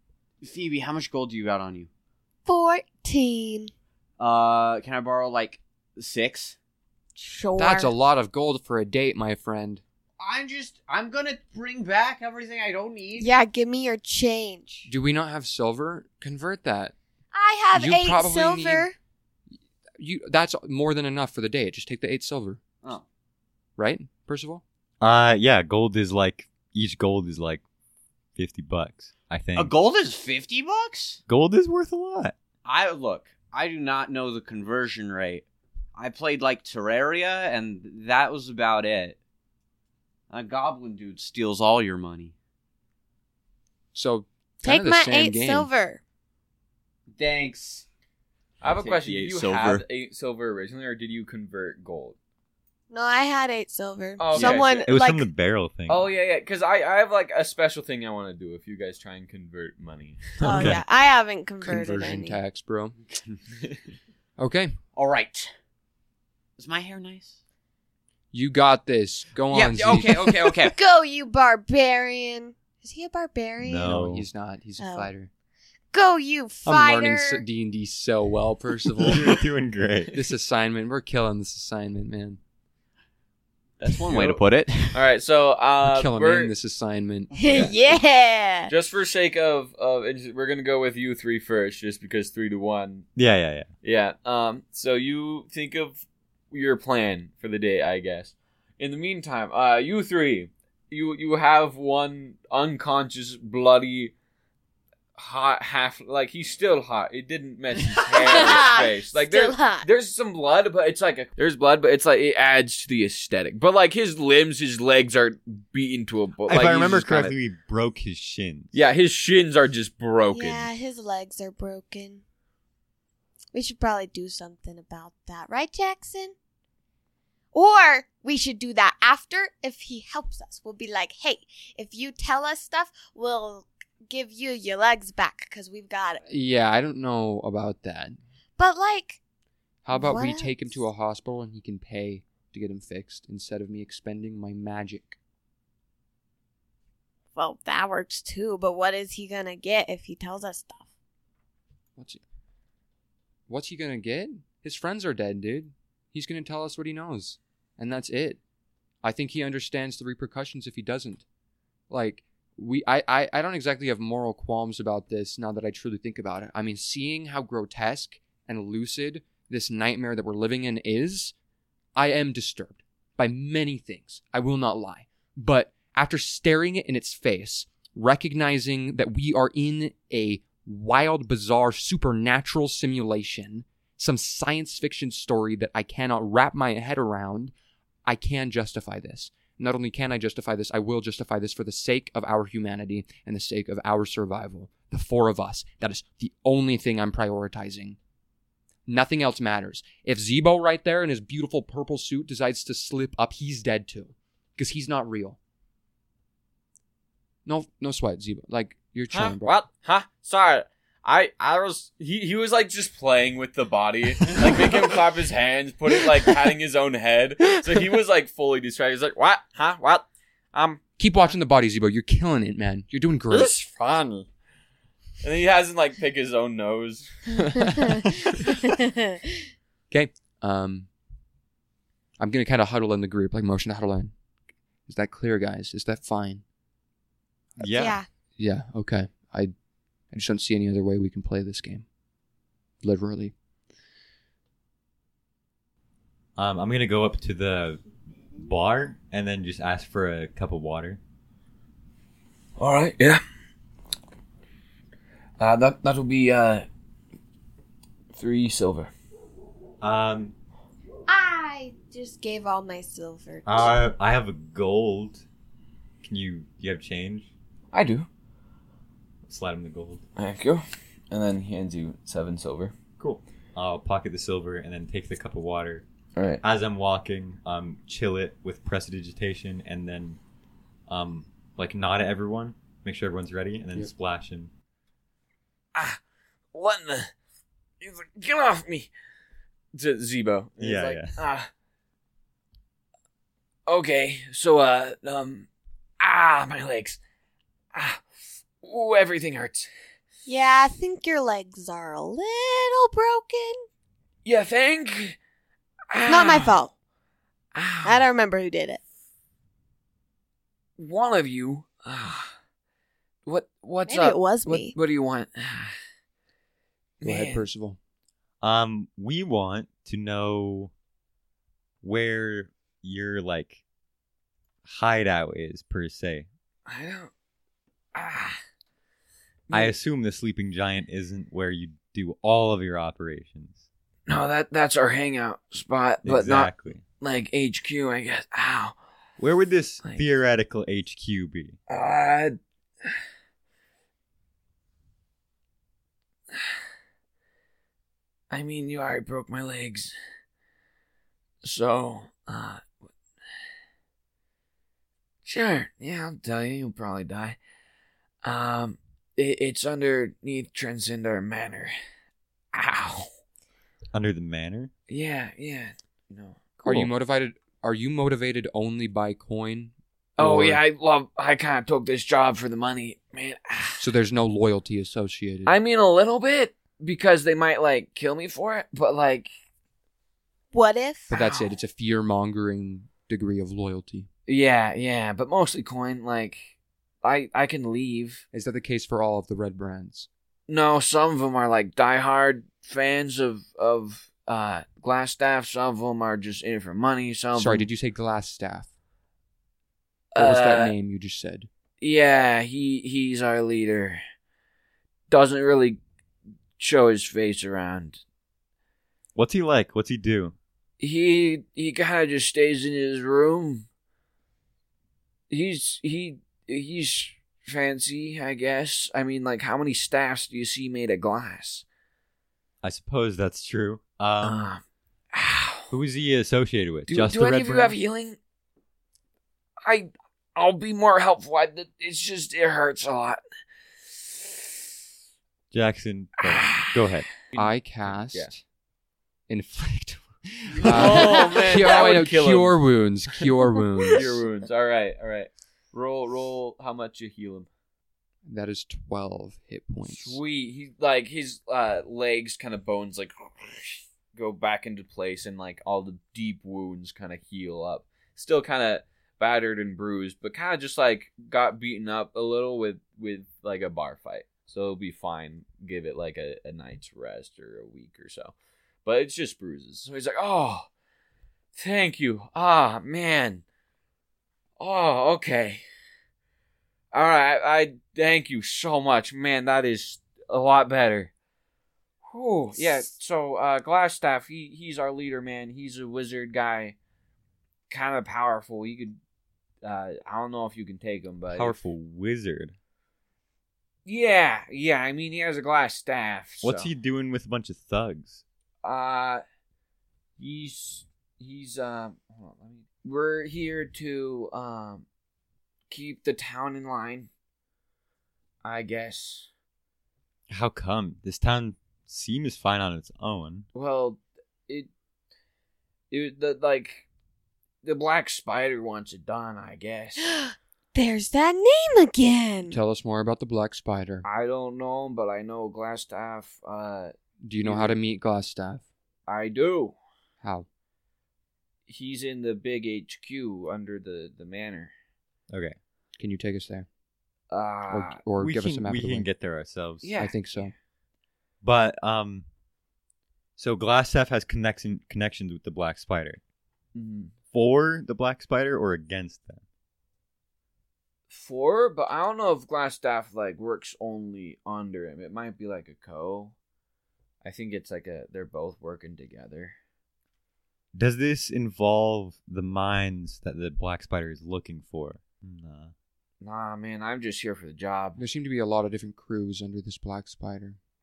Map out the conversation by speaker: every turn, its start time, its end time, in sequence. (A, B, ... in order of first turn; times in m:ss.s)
0:00.4-0:01.9 A
0:02.4-0:03.7 B
0:04.2-0:06.6 A
0:07.2-0:07.9 B
0:07.6-0:09.8 C
0:10.2-0:13.3 A
0:13.2-0:14.9 B
0:14.9-0:16.9 C
0:17.3-0:18.9 B
0:17.7-0:18.9 C
0:19.5-0:22.6 C
0:23.8-0:24.6 C
0:25.0-0:27.6 D
0:28.4-0:29.7 D
0:29.6-0:31.2 A
0:31.3-0:32.4 D
0:32.6-0:39.2 A
0:40.3-0:42.3 A
0:43.9-0:45.7 C
0:44.6-0:46.0 B
0:47.1-0:47.9 A
0:48.6-0:49.8 A
0:48.6-0:52.2 E
0:52.9-0:55.3 B
0:54.2-0:54.8 E
0:54.4-0:54.6 A
0:54.6-0:56.1 D
0:55.9-1:00.6 E
1:00.4-1:02.4 B
1:00.4-1:00.8 D
1:01.6-1:03.0 C
1:03.1-1:03.4 A
1:04.4-1:04.8 C
1:04.9-1:05.5 A
1:06.6-1:07.4 A
1:08.3-1:10.5 C
1:09.5-1:10.8 A
1:10.8-1:14.0 B
1:13.6-1:14.2 D
1:13.8-1:15.3 C
1:14.8-1:15.1 B
1:15.9-1:17.4 B
1:16.6-1:19.4 C
1:19.0-1:20.1 D
1:20.1-1:22.4 C
1:23.8-1:25.0 A
1:24.0-1:26.5 E
1:25.8-1:27.6 C
1:27.4-1:28.7 B
1:27.4-1:27.7 E
1:28.7-1:33.0 E
1:33.2-1:33.7 D
1:33.8-1:44.1 E
1:45.2-1:57.4 E
1:48.2-1:49.9 B
1:56.5-1:58.7 D
1:58.7-2:00.7 E
2:00.3-2:02.2 B
2:03.5-2:06.4 B
2:07.5-2:16.2 B
2:16.3-2:18.2 C
2:18.6-2:19.2 B
2:19.8-2:25.2 C
2:19.9-2:20.8 B
2:27.4-2:30.9 B
2:32.0-2:32.2 C
2:33.5-2:38.4 C
2:39.0-2:41.2 C
2:41.9-2:51.4 C
2:51.9-3:07.5 C
3:08.0-3:18.0 C
3:18.9-3:25.4 C
3:27.4-3:29.5 C
3:29.1-3:40.8 E
3:41.0-3:43.5 C
3:43.3-3:44.2 E
3:45.2-3:47.6 E
3:47.5-3:48.1 C
3:48.0-3:49.4 B
3:49.9-3:50.9 C
3:52.2-3:54.1 C
3:54.9-3:56.4 C
3:57.6-3:58.0 D
3:57.7-3:58.0 B
3:58.4-3:59.5 C
4:00.1-4:01.9 C
4:02.8-4:03.3 C
4:06.4-4:07.8 D
4:08.4-4:11.0 D
4:12.6-4:13.2 E
4:15.4-4:16.6 E
4:18.1-4:18.9 E
4:19.8-4:20.3 D
4:21.1-4:23.7 B
4:23.4-4:25.2 D
4:26.0-4:27.3 D
4:27.7-4:28.1 E
4:29.3-4:30.0 D
4:30.2-4:32.7 E
4:33.0-4:35.8 D
4:36.1-4:36.4 E
4:36.4-4:40.2 D
4:40.9-4:44.5 D
4:46.5-4:47.1 E
4:47.8-4:48.9 E
4:49.7-4:51.5 E
4:50.6-4:51.1 D
4:53.7-4:55.5 E
4:56.0-4:57.0 E
4:57.7-4:58.0 E
4:58.6-4:59.7 E
5:00.2-5:03.6 B
5:04.2-5:05.2 E
5:05.9-5:06.6 E
5:06.1-5:06.7 B
5:07.5-5:08.1 E
5:07.8-5:08.8 B
5:10.8-5:12.3 E
5:13.2-5:15.7 E
5:13.9-5:14.8 B
5:17.0-5:17.4 E
5:17.0-5:17.8 C
5:18.4-5:20.7 D
5:21.8-5:23.6 D
5:24.6-5:26.3 D
5:26.7-5:27.1 E
5:27.9-5:28.4 E
5:29.5-5:29.7 E
5:29.5-5:33.7 D
5:34.1-5:38.7 E
5:36.0-5:36.8 D
5:39.2-5:41.6 D
5:41.7-5:42.9 E
5:48.3-5:49.9 E
5:51.4-5:52.7 E
5:55.2-5:57.4 E
5:58.2-6:01.7 E
6:02.5-6:03.1 E
6:03.9-6:04.7 D
6:04.9-6:06.9 E
6:06.6-6:10.6 C
6:10.2-6:13.9 E
6:13.8-6:15.6 C
6:15.4-6:19.3 E
6:20.5-6:21.2 B
6:21.1-6:24.1 C
6:21.1-6:21.4 E
6:24.3-6:28.2 E
6:28.3-6:30.1 C
6:30.5-6:37.7 E
6:37.3-6:38.7 C
6:40.1-6:40.7 E
6:40.2-6:41.5 C
6:41.8-6:44.0 E
6:45.1-6:45.8 E
6:46.6-6:48.0 E
6:49.2-6:50.4 D
6:50.8-6:53.7 E
6:55.3-7:01.6 E
7:02.6-7:04.5 D
7:04.2-7:04.6 E
7:05.1-7:05.7 E
7:05.7-7:07.8 D
7:06.9-7:08.2 E
7:09.6-7:13.2 E
7:13.9-7:14.4 E
7:15.5-7:17.1 D
7:16.3-7:16.7 E
7:17.3-7:18.3 E
7:17.4-7:18.4 C
7:19.3-7:24.2 C
7:20.6-7:22.6 E
7:23.9-7:27.5 E
7:28.2-7:30.2 C
7:29.9-7:48.3 E
7:48.8-7:50.7 E
7:51.6-7:53.4 E
7:54.6-7:55.6 E
7:56.9-8:01.1 E
8:02.1-8:06.8 E
8:07.7-8:09.0 E
8:09.6-8:11.6 E
8:11.3-8:12.6 D
8:13.9-8:16.7 E
8:16.4-8:18.2 D
8:18.6-8:19.2 E
8:20.2-8:24.9 E
8:25.7-8:27.1 E
8:28.4-8:29.3 E
8:30.3-8:33.4 D
8:33.6-8:34.7 E
8:35.9-8:36.9 E
8:37.6-8:40.1 E
8:40.0-8:42.6 B
8:42.5-8:44.0 C
8:44.0-8:47.8 E
8:47.2-8:48.7 C
8:49.1-8:49.8 E
8:50.2-8:50.5 C
8:51.7-8:54.7 E
8:55.3-8:55.6 D
8:56.0-8:56.7 C
8:57.3-8:58.0 E
8:57.7-8:59.1 C
8:58.2-8:59.9 D
8:59.8-9:00.5 E
9:00.0-9:00.5 C
9:01.4-9:02.2 D
9:03.4-9:06.2 D
9:06.7-9:07.1 E
9:07.3-9:09.4 D
9:11.1-9:16.3 E
9:17.2-9:19.6 E
9:20.7-9:25.7 D
9:26.2-9:28.0 E
9:28.0-9:30.6 C